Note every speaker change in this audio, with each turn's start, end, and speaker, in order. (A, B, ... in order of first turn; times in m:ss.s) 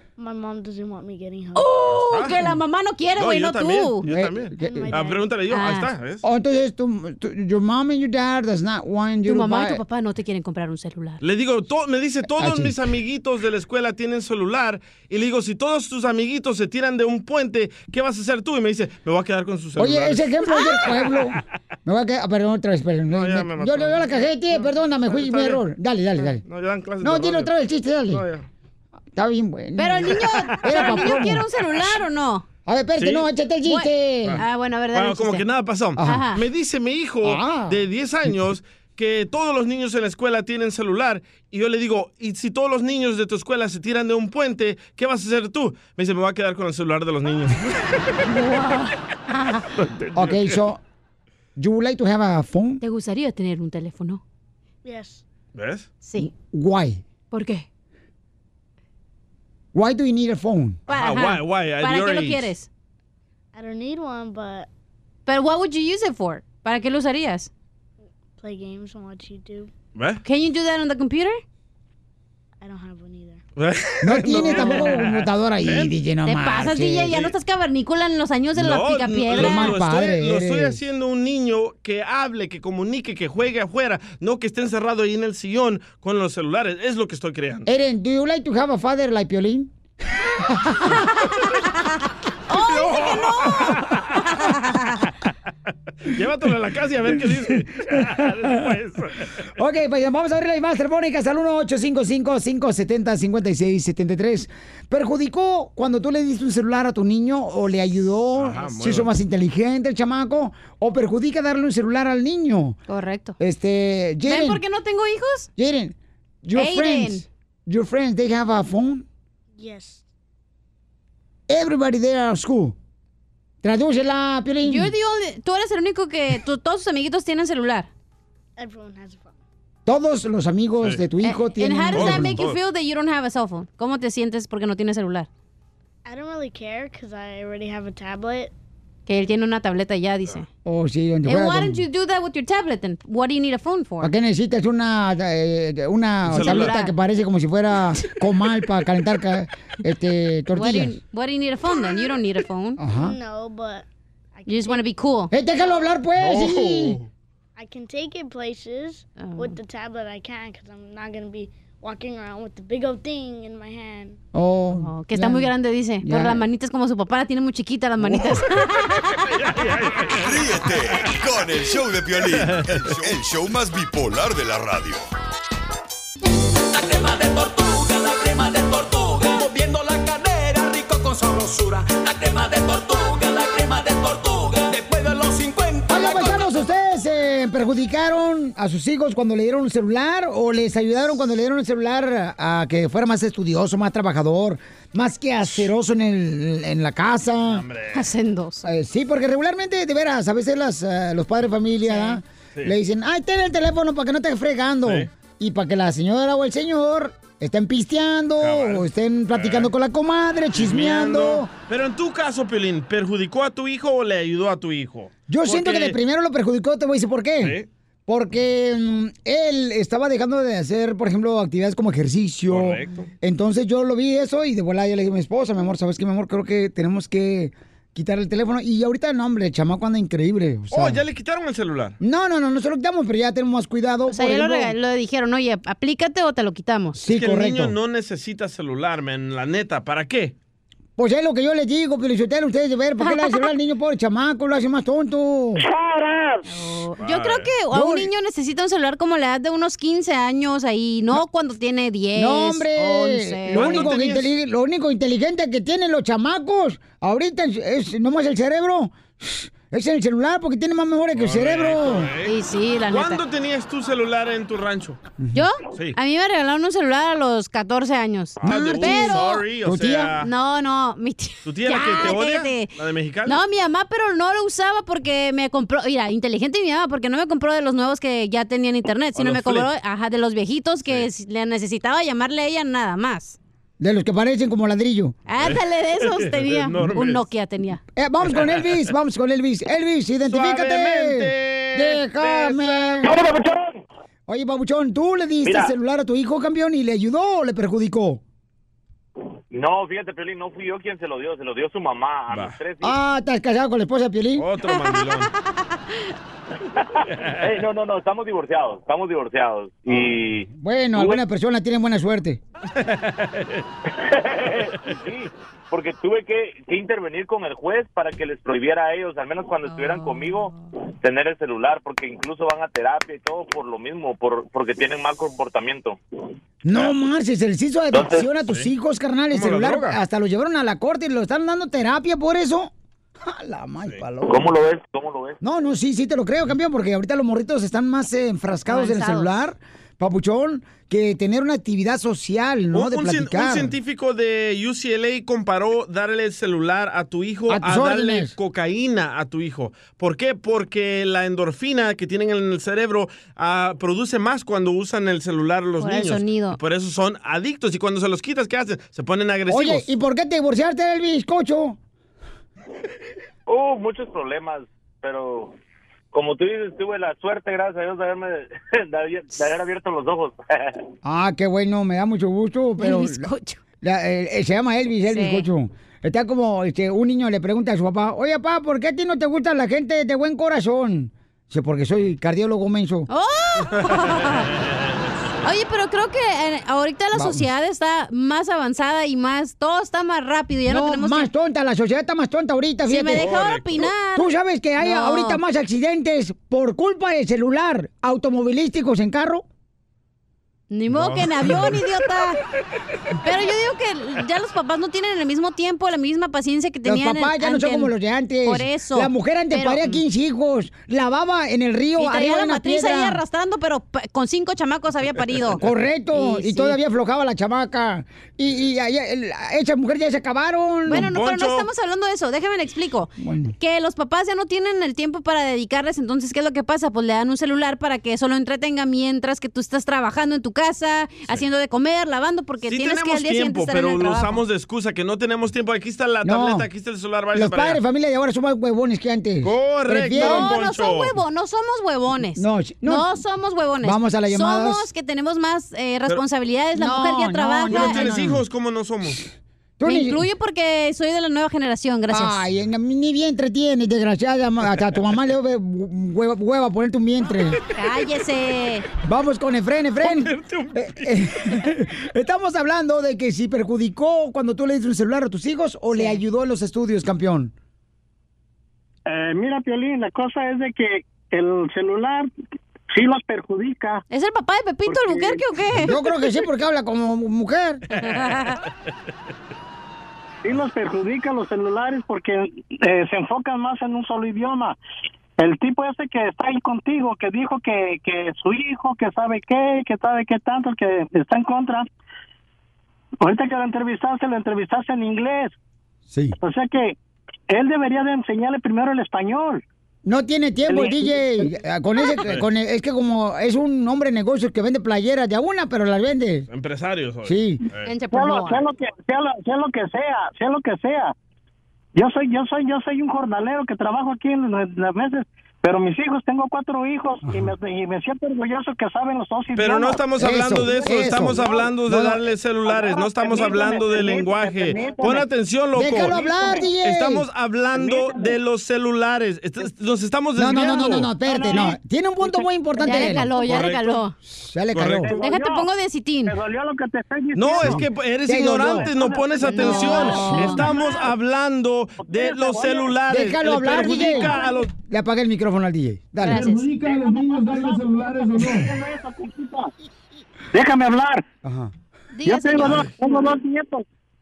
0:00.2-0:01.7 A
0:01.5-0:04.1 B
0:02.1-0:02.6 C
0:03.2-0:06.2 C
0:04.0-0:05.0 D
0:04.6-0:05.2 A
0:05.5-0:05.9 B
0:06.2-0:09.8 D
0:09.2-0:11.2 B
0:11.2-0:20.3 C
0:12.4-0:12.7 D
0:19.8-0:26.4 D
0:20.5-0:20.8 B
0:23.1-0:25.6 C
0:26.2-0:27.5 C
0:27.0-0:28.2 D
0:28.1-0:28.5 C
0:29.1-0:31.4 D
0:29.8-0:32.4 B
0:30.2-0:31.3 C
0:32.6-0:34.4 D
0:33.0-0:33.3 C
0:33.6-0:35.4 B
0:34.2-0:47.8 C
0:36.0-0:36.2 D
0:36.0-0:36.4 B
0:37.2-0:37.8 D
0:48.3-0:49.6 B
0:49.7-0:50.6 C
0:50.1-0:50.8 D
0:51.6-0:52.8 D
0:52.8-0:54.2 B
0:54.8-0:55.2 A
0:55.5-0:55.9 C
0:56.0-0:56.3 B
0:56.2-0:57.0 D
0:57.3-0:57.6 B
0:59.7-1:00.8 D
1:00.9-1:02.7 B
1:00.9-1:02.5 C
1:03.5-1:04.7 A
1:05.2-1:07.5 B
1:08.4-1:09.7 A
1:09.9-1:10.2 C
1:10.2-1:11.4 B
1:12.6-1:13.4 A
1:13.6-1:15.9 C
1:14.0-1:17.2 D
1:16.2-1:19.8 B
1:17.1-1:17.3 C
1:18.6-1:27.7 C
1:19.3-1:20.8 D
1:27.6-1:29.7 D
1:30.5-1:30.9 D
1:31.0-1:31.6 B
1:32.5-1:35.0 B
1:32.6-1:34.6 C
1:36.0-1:39.4 C
1:39.6-1:52.8 D
1:48.4-1:49.1 C
1:52.9-1:53.4 B
1:53.4-1:54.6 D
1:54.2-1:55.5 B
1:55.6-1:59.0 D
1:56.5-1:57.2 B
1:59.6-2:00.0 A
2:01.5-2:02.8 D
2:03.6-2:04.9 D
2:04.6-2:07.9 B
2:08.6-2:09.4 A
2:09.8-2:12.4 D
2:11.2-2:15.3 B
2:11.9-2:12.6 C
2:16.0-2:18.5 A
2:19.1-2:20.5 B
2:20.6-2:21.8 D
2:21.2-2:24.1 B
2:24.0-2:31.0 D
2:26.2-2:26.8 C
2:26.3-2:26.9 B
2:30.5-2:32.8 B
2:32.8-2:33.1 D
2:32.9-2:35.0 A
2:34.5-2:35.3 B
2:35.3-2:37.0 D
2:35.6-2:35.9 A
2:36.2-2:37.1 C
2:37.6-2:44.2 A
2:39.2-2:39.6 B
2:44.3-2:45.5 D
2:44.8-2:49.3 B
2:46.0-2:46.4 D
2:49.3-2:50.4 C
2:50.1-2:55.0 E
2:52.4-2:53.1 C
2:56.7-3:06.5 F
3:05.9-3:17.6 D
3:17.4-3:18.1 C
3:17.9-3:18.6 B
3:18.6-3:31.5 D
3:21.8-3:22.2 B
3:28.4-3:29.7 C
3:30.5-3:36.0 C
3:35.3-3:51.0 D
3:37.4-3:37.7 C
3:42.5-3:43.1 C
3:50.7-3:52.0 C
3:52.0-3:54.7 D
3:54.1-3:57.0 B
3:57.0-3:57.7 D
3:57.1-4:00.3 C
4:01.0-4:05.6 D
4:03.0-4:03.5 B
4:06.5-4:13.9 B
4:07.0-4:07.5 C
4:07.7-4:08.1 D
4:12.2-4:22.1 D
4:13.5-4:14.3 C
4:21.1-4:22.3 C
4:22.2-4:23.2 B
4:22.9-4:25.0 C
4:25.3-4:29.4 B
4:25.7-4:26.0 C
4:28.4-4:30.3 C
4:28.4-4:30.1 D
4:30.2-4:32.7 B
4:31.4-4:33.4 C
4:33.2-4:43.4 B
4:39.1-4:39.7 C
4:43.8-4:45.2 D
4:45.3-4:47.8 B
4:45.4-4:47.2 C
4:48.0-4:53.2 D
4:48.3-4:48.8 C
4:50.3-4:53.1 C
4:53.1-4:53.6 G
4:54.3-4:58.2 D
4:55.4-4:55.7 G
4:59.5-5:03.0 G
5:02.3-5:02.6 C
5:02.8-5:04.5 D
5:04.4-5:05.3 C
5:04.7-5:06.0 B
5:07.1-5:07.4 C
5:07.4-5:11.2 G
5:10.5-5:12.4 D
5:12.8-5:13.6 C
5:13.9-5:26.0 G
5:19.6-5:20.6 B
5:26.6-5:34.5 D
5:27.9-5:28.2 G
5:29.3-5:30.0 C
5:34.2-5:35.4 G
5:35.4-5:43.7 D
5:38.7-5:39.3 B
5:42.7-5:59.9 C
5:47.5-5:48.3 D
5:55.8-5:56.6 B
5:59.5-6:01.8 D
6:03.5-6:05.5 G
6:06.1-6:10.8 G
6:11.0-6:13.3 D
6:12.8-6:13.6 B
6:13.8-6:23.1 D
6:15.1-6:15.5 B
6:23.1-6:24.5 B
6:24.6-6:25.1 C
6:25.4-6:31.3 B
6:27.1-6:27.4 D
6:30.7-6:33.3 D
6:32.9-6:35.4 B
6:33.1-6:33.9 C
6:34.1-6:39.4 D
6:40.7-6:42.4 B
6:40.9-6:41.8 C
6:43.2-6:47.9 B
6:46.8-6:53.2 D
6:48.4-6:49.9 B
6:52.0-6:55.6 B
6:55.6-7:01.1 D
6:56.1-6:56.8 B
7:00.9-7:14.4 B
7:00.9-7:01.7 C
7:03.2-7:03.5 D
7:12.6-7:17.8 C
7:16.2-7:16.7 D
7:17.3-7:20.6 D
7:19.4-7:21.2 C
7:20.1-7:28.1 B
7:22.4-7:23.1 D
7:23.8-7:24.8 D
7:26.8-7:28.4 D
7:27.7-7:29.2 C
7:29.8-7:30.2 D
7:29.8-7:32.4 B
7:32.1-7:37.6 D
7:37.7-7:38.8 B
7:39.0-7:47.5 D
7:40.0-7:41.1 C
7:45.9-7:46.2 B
7:49.1-7:52.3 H
7:52.9-7:54.0 H
7:54.1-7:56.0 B
7:54.9-7:55.4 H
7:55.8-7:57.8 D
7:58.0-7:58.6 B
8:00.4-8:04.8 H
8:05.4-8:11.9 H
8:13.2-8:15.6 H
8:16.1-8:16.4 D
8:16.4-8:17.0 H
8:17.5-8:19.6 H
8:20.0-8:26.5 D
8:20.7-8:21.5 H
8:26.5-8:27.9 C
8:27.2-8:27.6 D
8:27.8-8:28.6 B
8:28.1-8:31.1 H
8:32.0-8:40.0 H
8:37.2-8:37.5 D
8:39.5-8:46.2 C
8:40.2-8:42.2 D
8:41.3-8:41.7 H
8:42.6-8:45.3 H
8:45.7-8:47.2 D
8:46.0-8:46.7 H
8:46.8-8:51.7 C
8:47.7-8:48.4 H
8:50.4-8:53.3 D
8:51.2-8:52.4 H
8:52.8-8:54.1 B
8:53.4-8:54.0 C
8:54.2-8:55.1 D
8:54.7-8:55.2 C
8:55.0-8:55.6 H
8:55.2-8:56.3 B
8:56.2-8:57.8 H
8:57.3-9:04.7 C
8:57.6-8:58.9 D
8:58.6-9:01.0 H
8:59.4-9:00.7 B
8:59.8-9:00.6 D
9:02.0-9:02.9 H
9:03.1-9:06.6 D
9:04.0-9:04.5 H
9:06.2-9:06.7 B
9:06.4-9:08.6 C
9:06.7-9:09.7 H
9:10.5-9:11.2 H
9:11.4-9:11.7 D
9:12.1-9:13.3 B
9:12.2-9:13.8 H